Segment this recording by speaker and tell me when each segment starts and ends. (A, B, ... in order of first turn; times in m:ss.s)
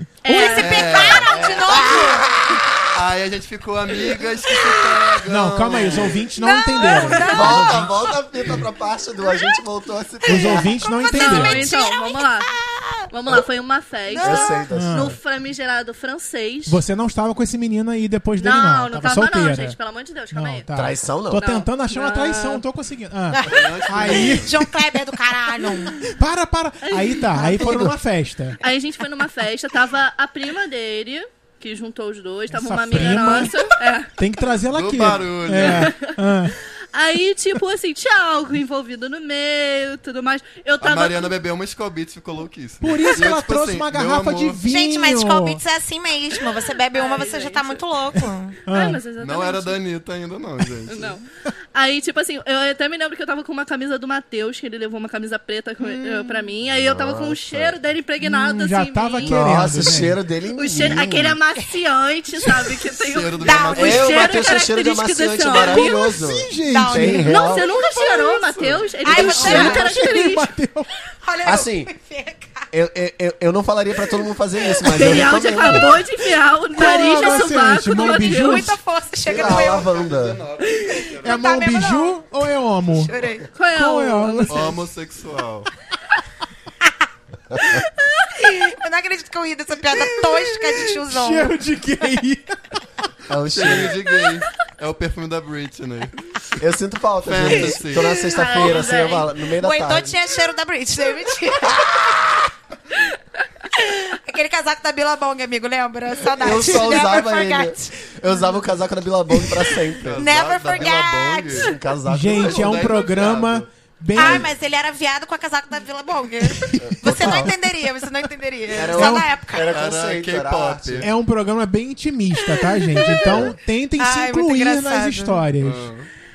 0:00.2-0:01.2 A
0:00.2-0:02.7 B
0:00.4-0:01.9 C
0:01.3-0:02.3 D
0:02.9-0:06.3 C
0:05.3-0:07.9 E
0:06.4-0:07.9 B
0:06.4-0:07.8 A
0:07.3-0:10.8 D
0:10.3-0:11.7 E
0:10.3-0:13.1 B
0:11.1-0:12.5 A
0:13.1-0:16.8 A
0:14.1-0:14.6 B
0:14.2-0:15.2 D
0:14.7-0:15.2 E
0:16.7-0:19.8 E
0:18.4-0:20.7 A
0:20.3-0:24.7 E
0:20.7-0:21.4 D
0:21.3-0:22.6 A
0:23.3-0:26.0 B
0:23.4-0:24.6 C
0:25.6-0:28.6 E
0:26.8-0:27.8 A
0:27.3-0:27.9 B
0:28.6-0:34.1 A
0:32.5-0:33.5 E
0:33.0-0:33.7 C
0:34.2-0:36.6 E
0:34.6-0:35.9 C
0:35.6-0:41.3 A
0:40.8-0:44.6 C
0:42.8-0:45.6 E
0:44.6-0:48.6 B
0:46.9-0:47.8 A
0:48.7-0:49.8 A
0:48.7-0:49.0 E
0:49.2-0:51.2 C
0:50.9-0:51.2 A
0:51.7-0:59.7 A
0:55.9-0:56.5 E
0:56.7-0:57.8 D
0:58.2-1:00.2 E
0:59.2-1:01.4 D
1:00.5-1:06.2 A
1:02.4-1:02.7 E
1:03.0-1:04.6 C
1:03.4-1:04.1 B
1:03.7-1:07.7 D
1:05.7-1:07.3 E
1:06.7-1:07.4 B
1:07.3-1:10.5 A
1:07.6-1:09.6 C
1:09.0-1:09.9 B
1:09.2-1:10.9 E
1:09.4-1:09.8 D
1:11.2-1:12.7 B
1:11.4-1:11.9 D
1:12.7-1:16.0 D
1:14.8-1:18.7 A
1:16.7-1:18.8 E
1:17.1-1:19.9 B
1:19.3-1:20.4 D
1:19.3-1:21.5 C
1:20.9-1:22.4 B
1:21.2-1:23.1 E
1:22.9-1:23.5 B
1:23.6-1:24.8 A
1:23.7-1:24.7 E
1:24.5-1:25.7 C
1:27.5-1:27.8 D
1:28.3-1:31.5 B
1:31.1-1:32.8 E
1:33.3-1:34.0 D
1:33.5-1:36.2 C
1:36.6-1:40.2 D
1:37.2-1:38.2 C
1:38.2-1:39.3 A
1:39.6-1:42.5 B
1:43.8-1:48.0 B
1:46.3-1:50.3 D
1:50.0-1:51.8 C
1:50.2-1:51.7 B
1:51.6-1:53.0 D
1:52.1-1:54.5 E
1:52.3-1:53.7 C
1:54.1-1:59.7 B
1:54.2-1:54.5 C
1:56.6-1:57.4 E
1:56.8-1:57.5 D
1:58.7-2:01.1 D
1:58.9-1:59.3 E
1:59.7-2:01.1 C
2:01.0-2:05.9 E
2:03.0-2:03.2 B
2:03.2-2:03.6 D
2:04.0-2:05.5 B
2:05.6-2:06.1 C